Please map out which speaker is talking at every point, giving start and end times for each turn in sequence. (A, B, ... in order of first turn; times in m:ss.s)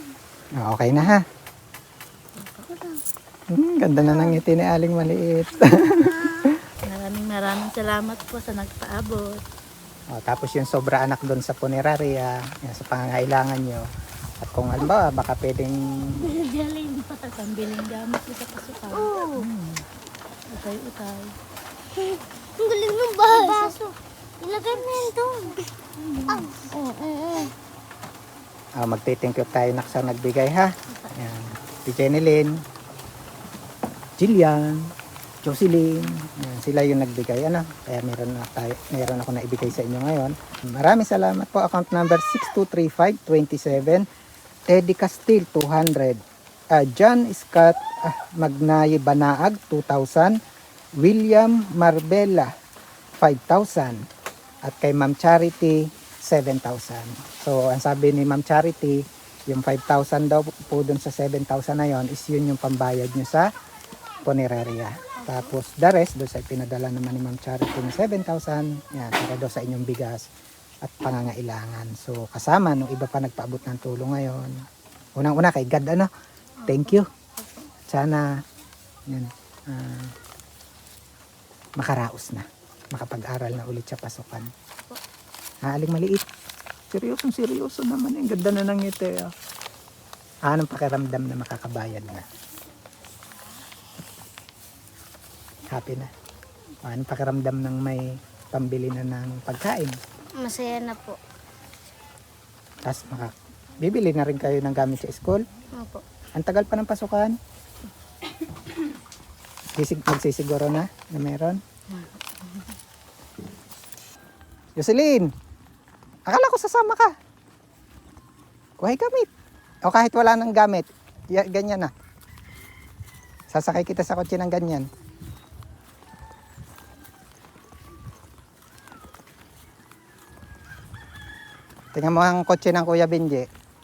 0:00.6-0:01.2 A
0:02.7-0:03.0 B
0:03.5-0:06.3 A
0:04.0-0:04.4 B
0:06.0-0:06.5 B
0:06.8-0:09.4 C
0:10.1-0:13.9 A
0:14.4-0:16.3 A
0:16.2-0:19.2 C
0:18.9-0:19.5 B
0:19.4-0:19.8 A
0:20.5-0:21.4 C
0:22.0-0:23.8 B
0:23.3-0:23.9 C
0:24.4-0:25.6 B
0:26.0-0:26.7 C
0:26.3-0:27.5 B
0:28.8-0:32.6 A
0:34.2-0:34.9 A
0:35.4-0:44.1 A
0:44.7-0:46.2 A
0:46.7-0:50.4 A
0:51.0-0:52.5 A
0:53.2-0:54.0 A
0:54.6-1:03.5 A
1:04.2-1:10.2 A
1:05.2-1:05.5 B
1:10.8-1:14.6 A
1:15.2-1:16.1 A
1:16.6-1:17.7 B
1:16.7-1:17.1 A
1:17.9-1:18.3 A
1:19.1-1:20.1 A
1:21.8-1:24.5 A
1:25.6-1:26.2 A
1:26.9-1:29.3 A
1:30.5-1:32.2 A
1:35.7-1:36.1 A
1:36.8-1:40.0 A
1:40.4-1:41.2 B
1:42.8-1:45.4 A
1:45.8-1:46.0 B
1:46.4-1:47.4 A
1:49.8-1:51.6 A
1:54.8-1:55.3 A
1:56.3-1:57.1 A
1:58.8-1:59.3 A
1:59.8-2:01.9 A
2:03.5-2:04.9 A
2:11.9-2:13.5 A